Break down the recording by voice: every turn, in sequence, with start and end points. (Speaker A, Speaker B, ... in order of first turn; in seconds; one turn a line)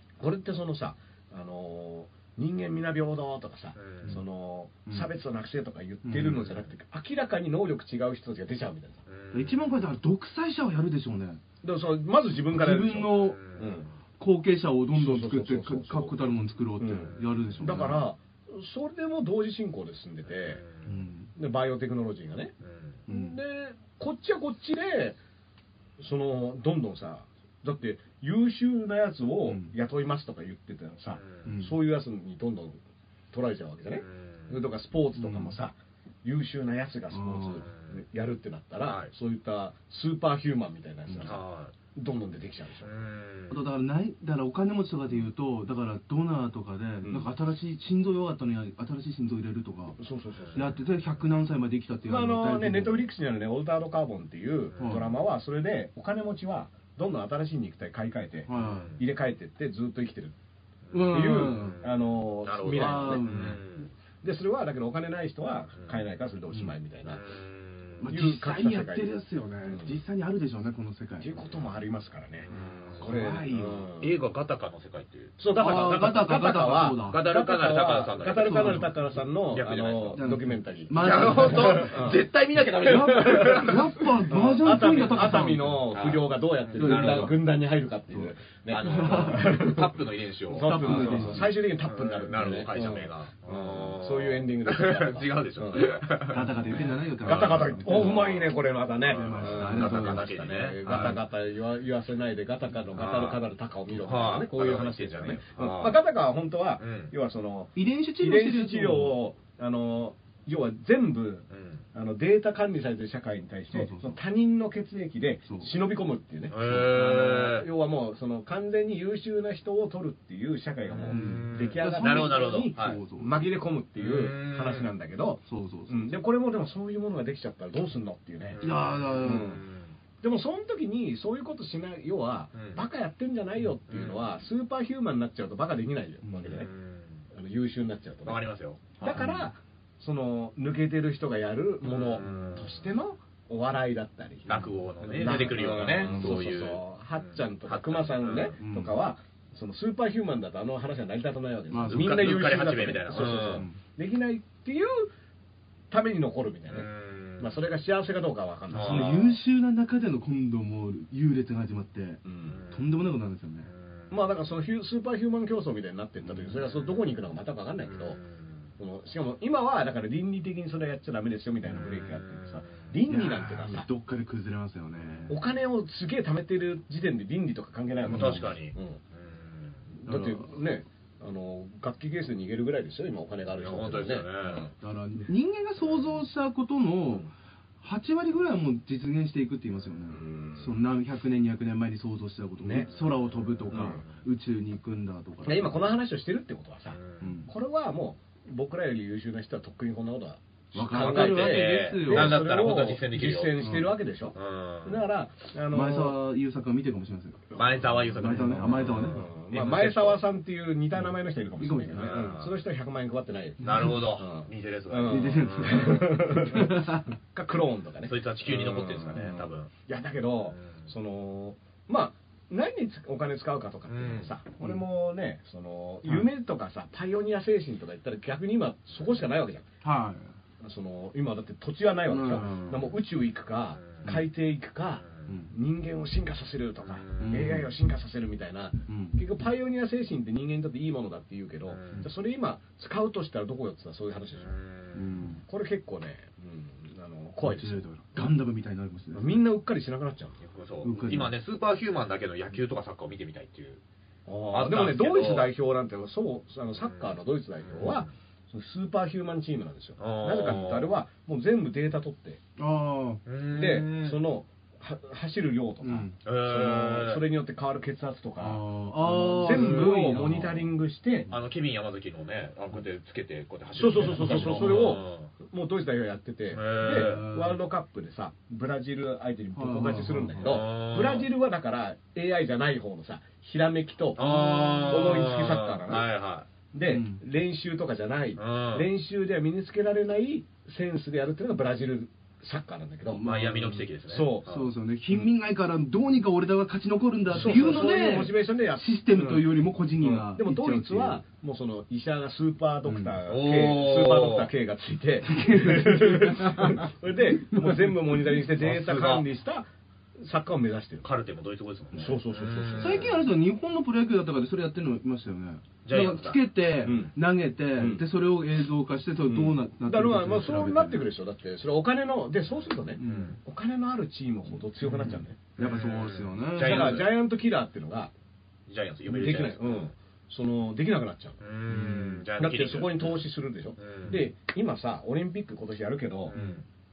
Speaker A: 0.2-9.0
Speaker B: 3.8-4.2
Speaker C: 6.0-6.5
Speaker B: 9.1-9.8
Speaker C: 9.3-11.4
Speaker A: 11.6-13.9
Speaker C: 12.5-13.4
Speaker B: 13.1-13.8
Speaker C: 14.2-18.0
Speaker A: 14.9-16.3
Speaker A: 16.8-20.6
Speaker B: 17.0-17.3
Speaker B: 20.4-21.0
Speaker C: 20.9-21.3
Speaker A: 21.4-22.5
Speaker B: 22.6-23.0
Speaker C: 23.1-23.4
Speaker A: 23.1-25.2
Speaker A: 26.0-32.8
Speaker C: 29.5-29.7
Speaker B: 31.2-31.5
Speaker C: 31.4-31.8
Speaker A: 33.3-41.4
Speaker B: 34.0-34.6
Speaker C: 35.2-35.6
Speaker C: 37.1-37.7
Speaker B: 37.7-38.0
Speaker B: 38.8-39.1
Speaker B: 41.2-41.7
Speaker A: 41.9-42.9
Speaker B: 42.8-43.6
Speaker C: 43.5-50.0
Speaker A: 47.0-47.3
Speaker A: 50.0-50.7
Speaker B: 50.4-50.6
Speaker C: 50.5-53.0
Speaker A: 52.0-60.4
Speaker B: 54.7-55.1
Speaker C: 54.8-55.1
Speaker C: 58.5-58.9
Speaker B: 58.5-59.0
Speaker B: 60.9-61.9
Speaker C: 60.9-61.8
Speaker A: 61.1-63.6
Speaker B: 62.4-63.9
Speaker C: 62.7-63.6
Speaker A: 64.2-67.2
Speaker B: 67.1-68.0
Speaker C: 68.0-71.3
Speaker A: 68.1-69.1
Speaker A: 69.6-70.0
Speaker A: 71.2-74.2
Speaker B: 72.5-73.2
Speaker C: 73.0-73.9
Speaker B: 74.0-75.4
Speaker A: 75.4-82.2
Speaker C: 75.5-77.2
Speaker B: 77.0-78.9
Speaker C: 78.4-79.0
Speaker B: 79.5-80.2
Speaker C: 80.2-82.1
Speaker B: 81.0-84.1
Speaker C: 82.8-85.8
Speaker A: 82.9-96.0
Speaker B: 84.7-87.4
Speaker C: 86.8-87.4
Speaker B: 88.7-101.2
Speaker C: 88.8-89.8
Speaker C: 90.5-91.5
Speaker C: 96.3-98.3
Speaker A: 96.8-128.6
Speaker C: 99.0-101.2
Speaker B: 103.0-103.4
Speaker B: 104.0-106.0
Speaker B: 106.8-107.1
Speaker C: 107.8-109.2
Speaker B: 111.5-111.8
Speaker C: 113.7-114.2
Speaker C: 115.5-115.7
Speaker B: 116.5-117.7
Speaker B: 120.9-123.0
Speaker C: 121.1-123.5
Speaker B: 124.0-124.9
Speaker C: 125.5-126.2
Speaker B: 128.5-129.9
Speaker C: 128.6-129.6
Speaker A: 129.2-129.6
Speaker A: 130.2-136.7
Speaker B: 132.6-132.8
Speaker B: 133.9-134.2
Speaker B: 136.4-137.2
Speaker A: 137.3-138.4
Speaker B: 138.2-139.4
Speaker A: 139.0-155.1
Speaker C: 139.1-139.5
Speaker B: 141.9-142.9
Speaker B: 144.5-148.6
Speaker C: 144.5-146.4
Speaker C: 148.6-148.9
Speaker C: 151.7-153.8
Speaker B: 151.9-153.7
Speaker A: 155.9-159.3
Speaker B: 156.7-157.6
Speaker B: 158.7-159.4
Speaker C: 158.8-163.7
Speaker A: 162.2-162.6
Speaker B: 162.5-162.9
Speaker B: 163.7-164.2
Speaker A: 164.1-168.2
Speaker B: 166.2-167.0
Speaker B: 167.8-168.7
Speaker A: 168.8-173.9
Speaker B: 171.7-173.0
Speaker C: 173.1-175.4
Speaker B: 175.0-175.4
Speaker A: 175.3-179.0
Speaker B: 178.0-179.8
Speaker C: 178.1-178.5
Speaker A: 180.0-184.7
Speaker C: 180.1-180.5
Speaker B: 183.6-184.7
Speaker C: 184.8-187.3
Speaker C: 187.8-195.8
Speaker A: 190.1-190.8
Speaker A: 192.6-192.9
Speaker B: 192.9-194.1
Speaker A: 193.7-194.0
Speaker A: 195.4-206.2
Speaker B: 196.9-197.3
Speaker C: 197.2-197.5
Speaker C: 200.7-202.4
Speaker B: 200.9-203.6
Speaker C: 203.6-203.9
Speaker B: 204.3-205.1
Speaker C: 205.7-207.4
Speaker B: 207.6-210.2
Speaker C: 208.2-209.2
Speaker A: 208.6-229.7
Speaker C: 211.6-212.3
Speaker B: 211.9-212.6
Speaker C: 213.6-214.0
Speaker B: 213.6-216.1
Speaker C: 215.1-217.1
Speaker B: 218.1-219.7
Speaker B: 220.5-220.8
Speaker B: 223.9-224.4
Speaker C: 229.8-230.3
Speaker A: 230.6-244.6
Speaker C: 232.1-232.9
Speaker B: 233.8-234.1
Speaker C: 235.3-235.5
Speaker B: 236.9-237.4
Speaker C: 237.2-237.7
Speaker C: 238.9-239.2
Speaker B: 241.7-242.1
Speaker B: 244.4-245.1
Speaker C: 244.9-245.4
Speaker A: 245.5-248.3
Speaker C: 247.4-249.4
Speaker A: 249.1-250.4
Speaker B: 250.4-253.8
Speaker C: 250.8-251.3
Speaker A: 254.3-262.4
Speaker B: 254.5-255.5
Speaker B: 257.7-258.1
Speaker B: 260.0-260.9
Speaker C: 262.6-263.2
Speaker B: 263.3-264.2
Speaker A: 263.5-271.3
Speaker C: 265.8-266.2
Speaker B: 266.2-267.2
Speaker C: 268.4-270.7
Speaker B: 269.6-269.9
Speaker B: 271.3-275.3
Speaker A: 273.8-286.1
Speaker C: 274.0-274.9
Speaker B: 276.5-277.3
Speaker C: 276.8-277.6
Speaker C: 279.6-280.6
Speaker B: 280.4-281.3
Speaker B: 284.2-286.5
Speaker A: 286.7-293.3
Speaker C: 286.9-287.2
Speaker B: 288.4-288.9
Speaker C: 293.1-293.9
Speaker B: 293.2-294.7
Speaker A: 294.1-294.5
Speaker C: 294.4-301.2
Speaker A: 297.3-311.1
Speaker B: 297.3-297.9
Speaker C: 302.9-303.2
Speaker B: 303.3-304.5
Speaker C: 305.3-308.4
Speaker B: 308.6-309.3
Speaker B: 311.0-313.2
Speaker A: 311.9-313.1
Speaker C: 312.8-321.1
Speaker B: 315.9-316.4
Speaker A: 316.8-317.1
Speaker A: 317.8-318.0
Speaker A: 319.8-325.4
Speaker C: 323.0-323.4
Speaker B: 323.0-323.4
Speaker C: 324.8-327.1
Speaker B: 325.6-327.1
Speaker A: 326.6-328.1
Speaker B: 328.7-329.9
Speaker A: 329.1-331.4
Speaker B: 331.4-333.2
Speaker C: 331.7-332.2
Speaker A: 332.4-336.4
Speaker B: 333.8-334.2
Speaker B: 336.3-336.6
Speaker C: 336.3-336.6